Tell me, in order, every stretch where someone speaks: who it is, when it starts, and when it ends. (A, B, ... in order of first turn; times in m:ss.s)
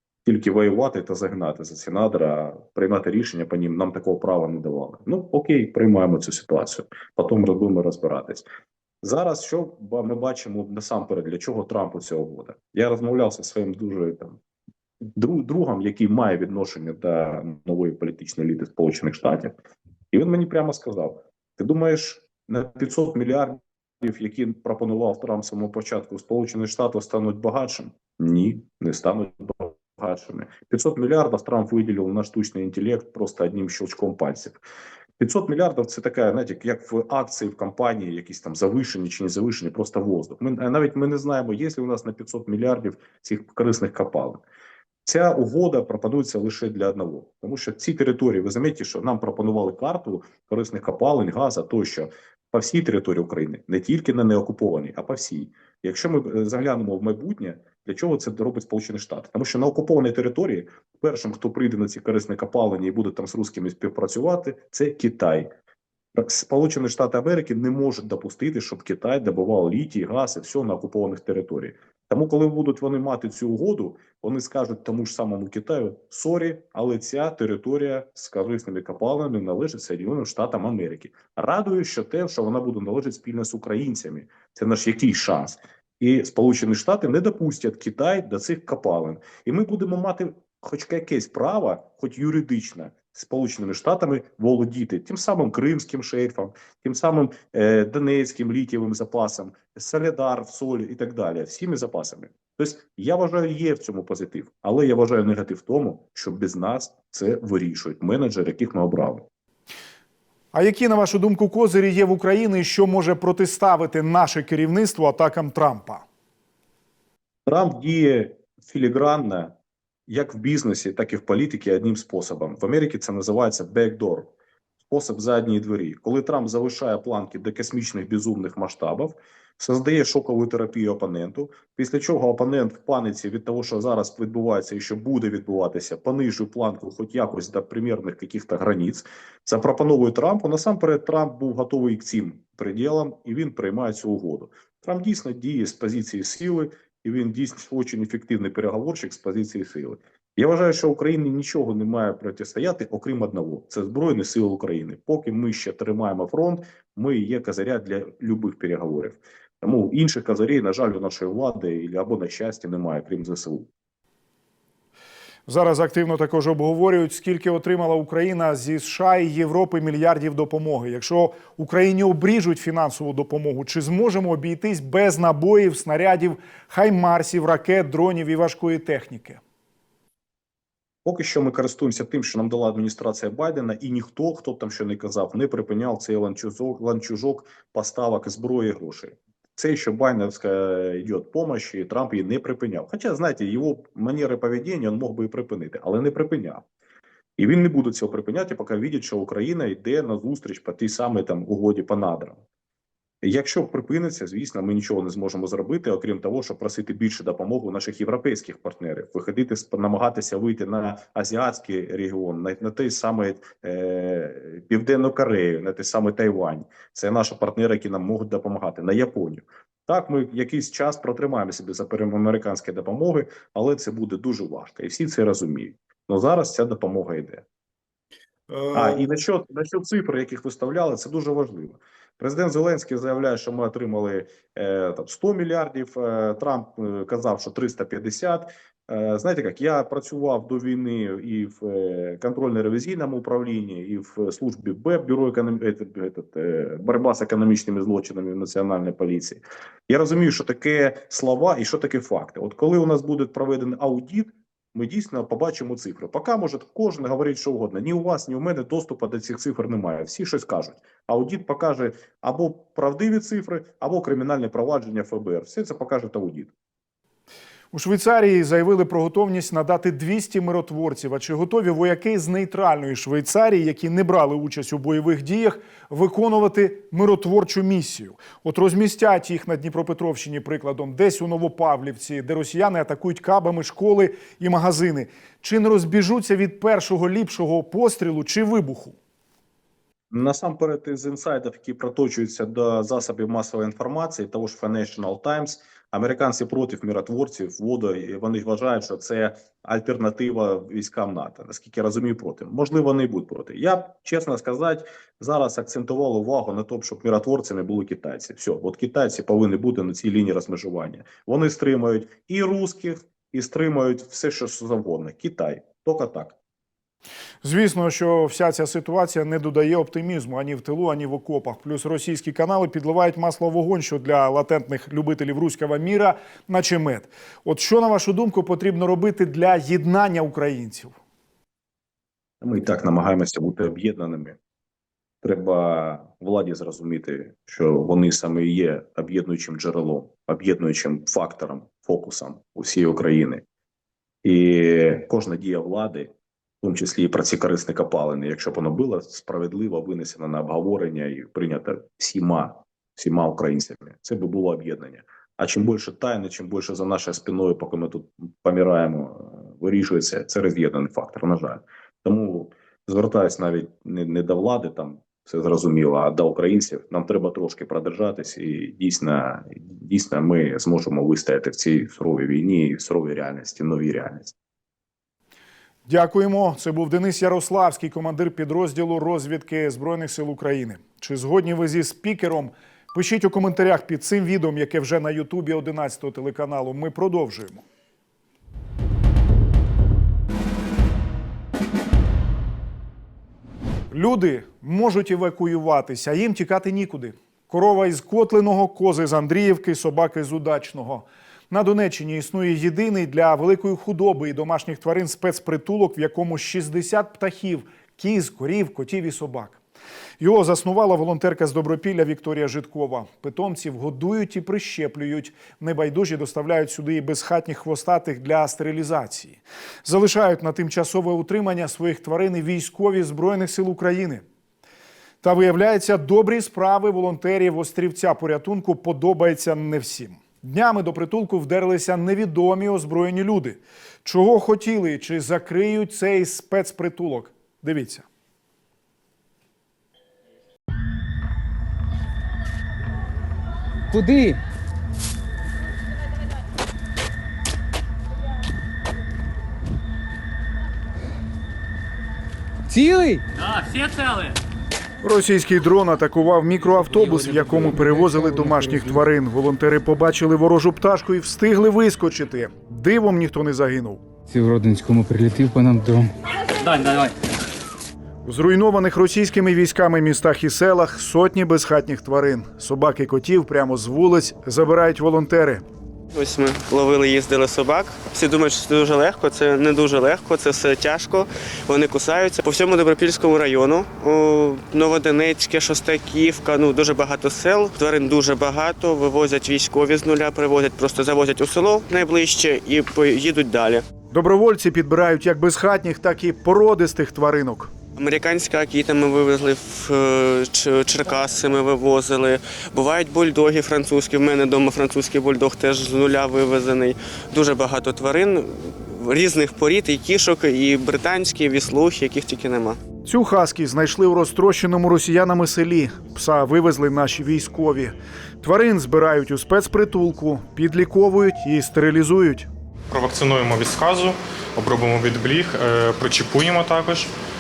0:00.2-0:08.5 A
0:09.0-0:14.4 A
0:15.1-0:19.5 A
0:20.1-0:34.6 A
0:35.2-0:44.4 A
0:45.0-1:05.5 A
1:06.1-1:49.3 A
1:50.5-1:56.0 B
1:57.4-1:59.5 A
2:00.1-2:04.3 A
2:04.9-2:43.7 A
2:45.5-2:59.4 B
3:01.0-3:16.6 A
3:17.4-3:22.4 A
3:23.2-3:47.4 A
3:48.5-3:49.1 B
3:48.7-4:26.5 A
4:27.7-4:49.0 B
4:50.1-5:16.4 A
5:17.4-5:30.9 B
5:32.4-5:34.4 A
5:35.2-5:43.4 A
5:44.2-6:14.3 A
6:15.9-6:27.6 B
6:33.9-6:49.6 B
6:50.2-7:04.2 B
7:05.2-7:18.1 B
7:23.9-7:24.4 C
7:32.7-7:33.2 C
7:35.0-7:44.0 B
7:37.3-7:38.9 C
7:44.3-7:46.1 C
7:46.6-7:47.1 C
7:48.3-7:55.6 B
7:56.1-8:13.8 D
8:14.1-8:17.7 B
8:17.9-8:32.8 D
8:33.1-8:42.5 B
8:42.9-8:47.1 E